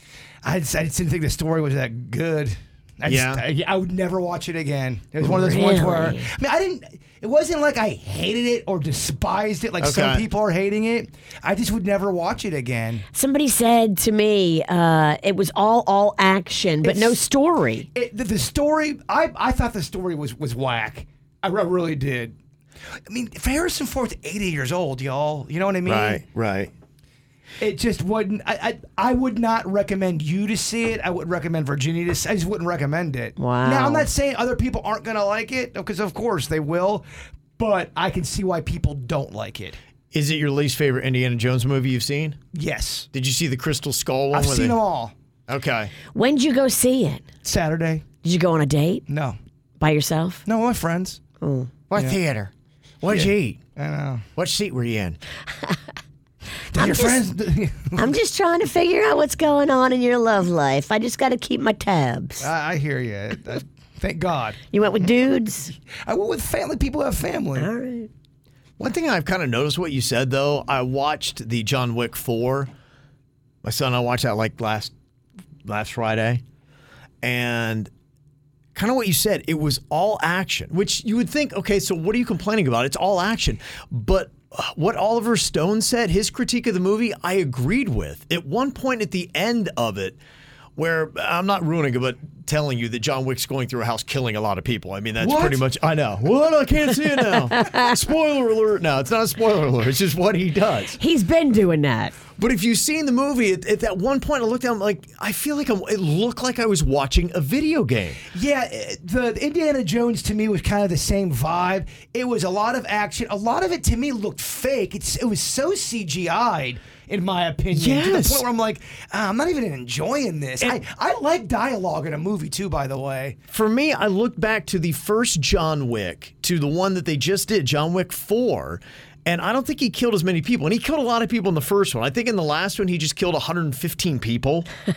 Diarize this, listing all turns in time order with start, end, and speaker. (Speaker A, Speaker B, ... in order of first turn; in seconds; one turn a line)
Speaker A: 0.4-13.1
Speaker B: 3.0-3.4
Speaker C: 5.2-6.3
Speaker B: 9.8-10.2
Speaker C: 13.2-17.9
Speaker A: 16.8-17.2
Speaker A: 17.9-22.3
Speaker A: 23.1-26.2
Speaker B: 25.9-26.7
Speaker A: 27.6-37.0
Speaker C: 33.4-34.1
Speaker A: 37.6-39.8
Speaker B: 40.1-42.4
Speaker A: 42.5-43.1
Speaker B: 43.1-44.8
Speaker A: 44.3-45.1
Speaker B: 45.5-45.9
Speaker C: 46.1-47.2
Speaker A: 47.4-48.0
Speaker C: 48.2-49.0
Speaker A: 49.1-49.4
Speaker C: 49.8-50.4
Speaker A: 50.5-51.2
Speaker C: 51.4-51.7
Speaker B: 51.9-53.6
Speaker A: 53.1-54.2
Speaker B: 54.4-55.2
Speaker A: 56.7-58.1
Speaker C: 56.8-57.2
Speaker C: 58.0-62.5
Speaker A: 62.4-64.6
Speaker C: 64.7-65.7
Speaker A: 66.0-67.7
Speaker C: 67.6-68.1
Speaker B: 68.8-72.7
Speaker B: 73.6-74.9
Speaker B: 75.7-76.4
Speaker B: 77.2-77.9
Speaker B: 78.8-90.2
Speaker B: 90.8-101.0
Speaker A: 95.2-95.6
Speaker C: 97.5-97.9
Speaker C: 101.0-102.2
Speaker B: 102.4-108.2
Speaker A: 108.3-123.4
Speaker B: 117.7-118.5
Speaker B: 123.5-134.7